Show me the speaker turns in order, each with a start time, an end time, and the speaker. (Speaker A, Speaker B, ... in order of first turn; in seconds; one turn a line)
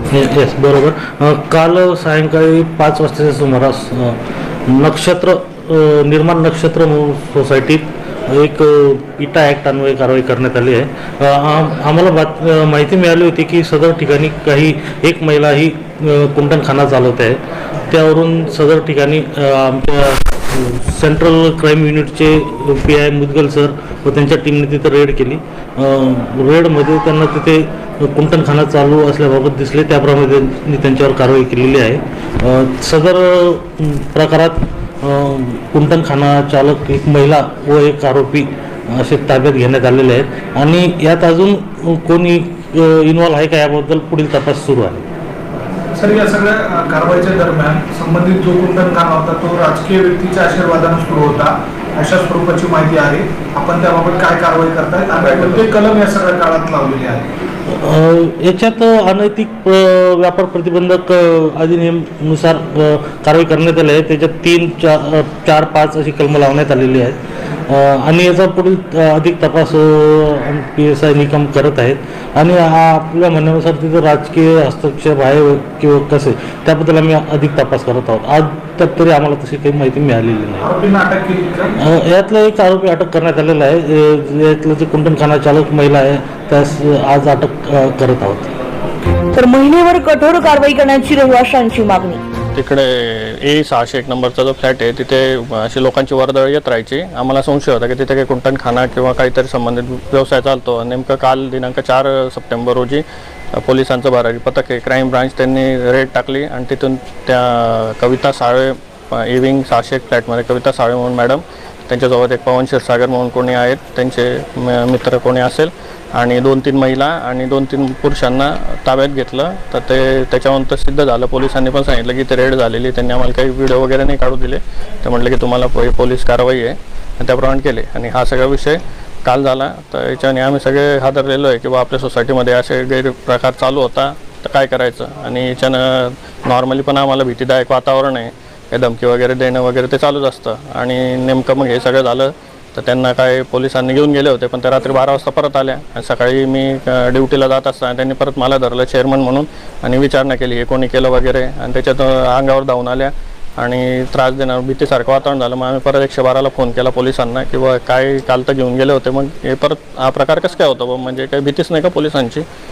Speaker A: 0.1-45.0
Speaker B: 45.9-57.3
Speaker A: 57.7-80.7
Speaker B: 80.6-81.7
Speaker A: 81.8-88.5
Speaker C: 89.3-92.2
Speaker D: 92.5-103.0
Speaker D: 103.6-162.4